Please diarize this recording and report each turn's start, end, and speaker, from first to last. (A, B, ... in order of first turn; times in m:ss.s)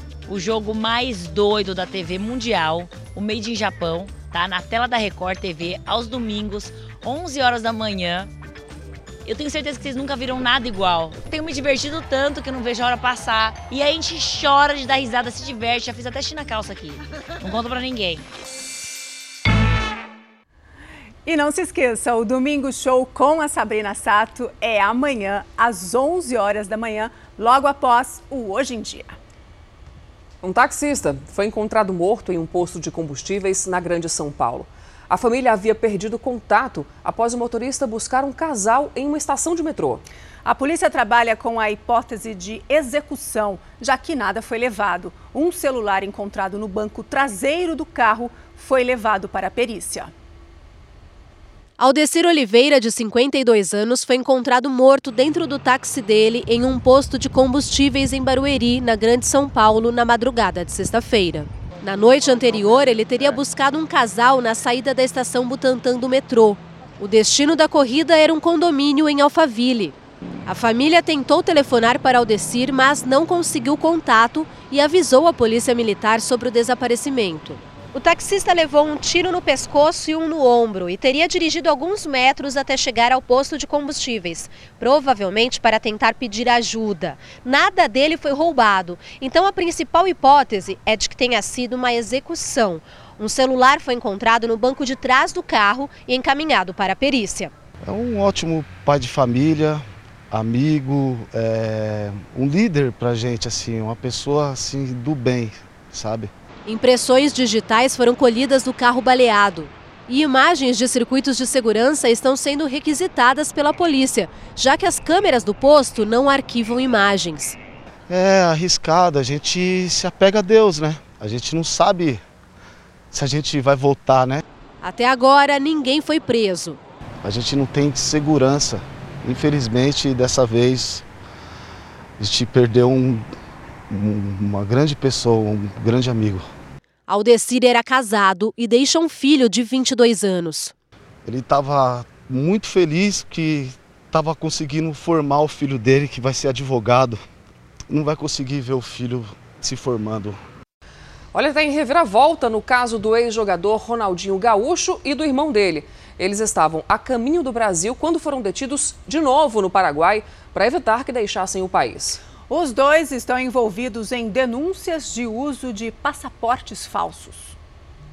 0:00.3-0:08.3 A
0:09.2-0:18.2 A
0:21.3-0:29.2 B
0:30.4-0:40.0 C
0:40.4-0:50.1 B
0:51.8-1:09.9 D
1:10.5-1:37.5 D
1:37.8-1:46.3 E
1:46.7-1:57.6 D
1:58.1-2:02.2 E
2:03.1-2:04.4 E
2:04.8-2:06.8 D
2:07.2-2:11.0 E
2:12.2-2:13.3 E
2:13.9-2:16.5 E
2:17.1-2:20.7 D
2:21.3-2:27.2 E
2:27.9-2:30.4 E
2:31.3-2:42.2 C
2:42.5-2:47.6 B